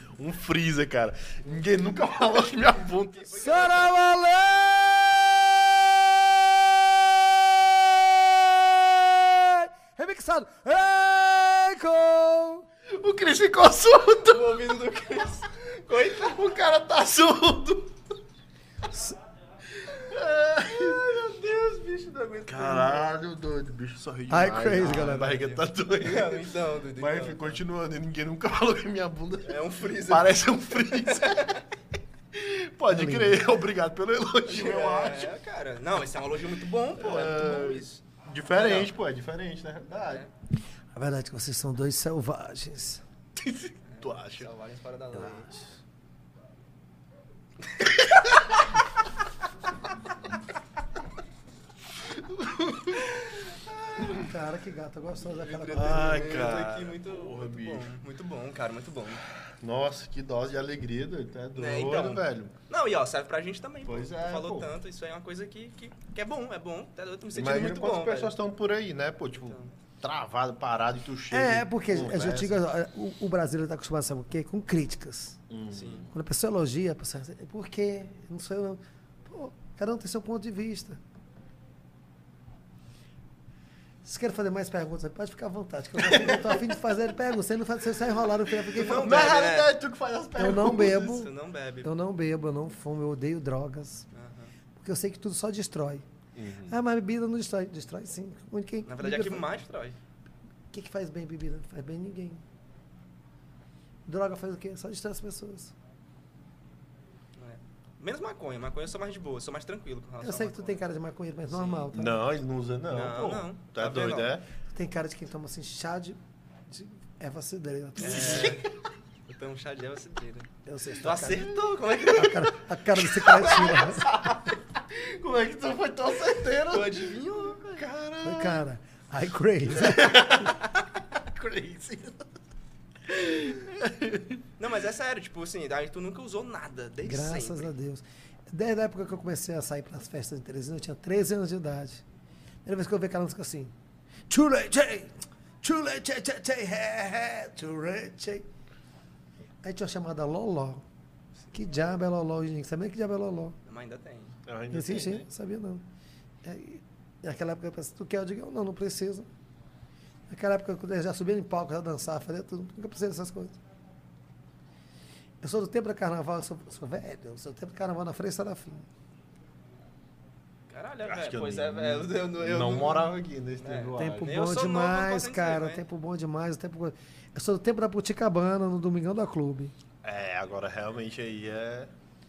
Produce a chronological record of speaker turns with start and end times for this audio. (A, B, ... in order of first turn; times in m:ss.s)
0:00.2-0:03.7 A
0:03.0-0:04.0 B
0:03.4-0:12.7 C
0:12.9-0:14.6 A
0:14.2-0:16.4 B
0:16.1-0:18.0 A
0:18.9-0:19.2 C
0:19.8-0:21.0 A
0:20.6-0:23.1 B
0:22.5-0:31.6 A
0:24.3-0:25.3 C
0:24.7-0:27.6 B
0:29.4-0:31.6 B
0:32.3-0:35.3 A
0:32.9-0:33.4 C
0:34.5-0:38.9 B
0:37.0-0:40.2 A
0:40.0-0:40.3 B
0:40.9-0:43.0 C
0:43.4-0:44.5 A
0:43.8-0:45.5 B
0:45.2-0:45.6 A
0:47.7-0:48.0 B
0:52.2-0:53.1 A
0:54.0-0:54.3 A
0:54.0-0:56.4 C
0:55.3-0:59.2 B
0:55.6-0:57.9 A
0:59.6-1:02.5 A
1:01.6-1:08.3 B
1:03.8-1:04.7 A
1:07.3-1:12.6 A
1:09.4-1:09.7 B
1:11.3-1:15.4 C
1:15.5-1:16.1 A
1:15.7-1:16.0 B
1:16.1-1:21.0 C
1:24.0-1:29.3 C
1:26.1-1:26.4 A
1:28.7-1:31.3 A
1:28.7-1:29.7 B
1:30.4-1:31.3 C
1:30.8-1:31.9 B
1:31.8-1:34.1 C
1:34.1-1:34.5 B
1:34.8-1:36.0 C
1:36.3-1:36.8 A
1:36.7-1:39.5 C
1:38.8-1:40.0 B
1:40.7-1:42.4 C
1:44.0-1:45.7 C
1:47.4-1:50.8 B
1:50.2-1:52.2 C
1:51.4-1:51.9 B
1:51.9-1:54.5 A
1:52.9-1:54.3 B
1:54.7-1:58.6 C
1:58.0-1:58.7 B
1:58.0-1:58.6 A
1:59.3-2:00.5 B
2:00.6-2:04.1 C
2:01.0-2:04.0 B
2:01.1-2:01.4 A
2:03.4-2:08.6 A
2:06.7-2:07.8 B
2:08.2-2:10.5 C
2:09.8-2:12.3 A
2:13.1-2:14.4 A
2:14.6-2:17.7 B
2:17.0-2:22.0 C
2:22.6-2:23.7 C
2:24.3-2:28.5 C
2:29.6-2:30.8 C
2:31.5-2:33.6 C
2:33.6-2:34.4 B
2:34.5-2:35.2 A
2:34.7-2:35.8 C
2:36.4-2:39.3 C
2:40.3-2:43.6 C
2:45.4-2:48.9 C
2:50.7-2:55.8 B
2:51.0-2:54.3 A
2:54.0-2:59.7 C
3:00.0-3:01.9 A